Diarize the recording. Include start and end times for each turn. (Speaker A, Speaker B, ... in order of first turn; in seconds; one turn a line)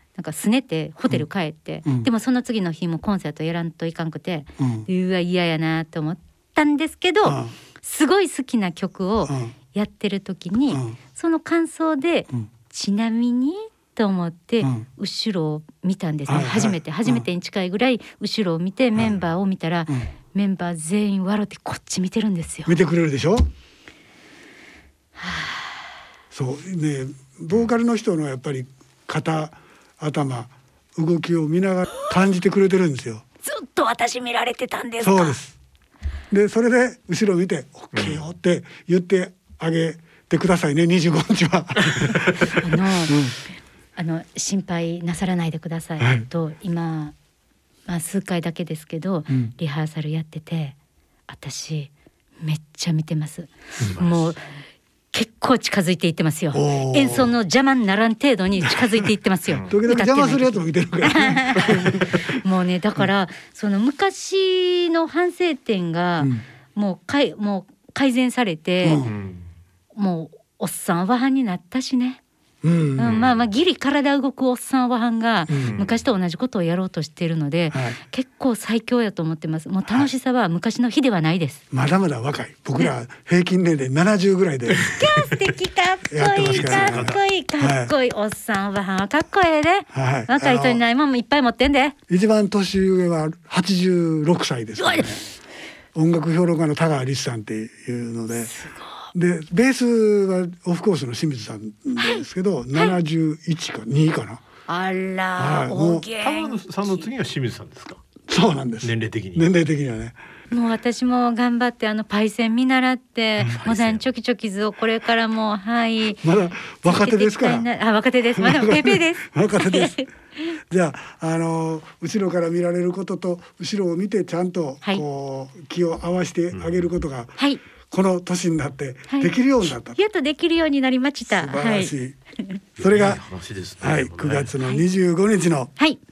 Speaker A: 0.1-22.8
Speaker B: 4.6-4.9
Speaker B: 7.2-7.5
Speaker B: 9.2-9.5
Speaker B: 10.7-10.9
Speaker B: 16.3-17.2
Speaker B: 22.6-23.4
Speaker A: 25.2-25.9
Speaker B: 26.3-33.2
Speaker A: 33.4-35.4
Speaker B: 35.0-35.5
Speaker B: 36.3-43.4
Speaker C: 37.9-38.2
Speaker A: 42.5-43.2
Speaker A: 44.0-47.1
Speaker B: 46.0-46.2
Speaker A: 47.9-50.7
Speaker A: 51.3-51.9
Speaker A: 52.4-54.4
Speaker C: 53.8-54.3
Speaker A: 55.1-69.1
Speaker B: 56.5-57.3
Speaker B: 58.6-59.0
Speaker C: 59.5-59.8
Speaker B: 59.7-62.4
Speaker B: 68.8-69.1
Speaker C: 69.0-69.5
Speaker A: 69.9-72.2
Speaker B: 72.6-73.2
Speaker A: 73.0-81.6
Speaker C: 73.0-73.4
Speaker B: 75.5-75.8
Speaker C: 75.6-76.0
Speaker B: 77.7-78.0
Speaker B: 81.7-85.0
Speaker A: 84.8-92.0
Speaker B: 86.1-87.9
Speaker C: 86.5-87.2
Speaker B: 89.9-90.8
Speaker B: 92.1-95.3
Speaker A: 94.8-95.1
Speaker B: 95.9-98.5
Speaker A: 98.5-99.1
Speaker B: 99.1-104.4
Speaker A: 102.0-103.0
Speaker A: 104.7-107.1
Speaker B: 105.4-106.1
Speaker C: 106.1-108.0
Speaker B: 108.3-110.2
Speaker C: 108.8-109.5
Speaker A: 110.5-120.5
Speaker C: 113.5-114.0
Speaker B: 116.2-117.7
Speaker B: 118.3-120.0
Speaker B: 120.7-127.3
Speaker B: 127.9-130.0
Speaker A: 129.1-129.3
Speaker A: 129.9-132.6
Speaker B: 131.3-132.2
Speaker C: 132.8-134.5
Speaker B: 132.8-133.2
Speaker B: 133.8-135.7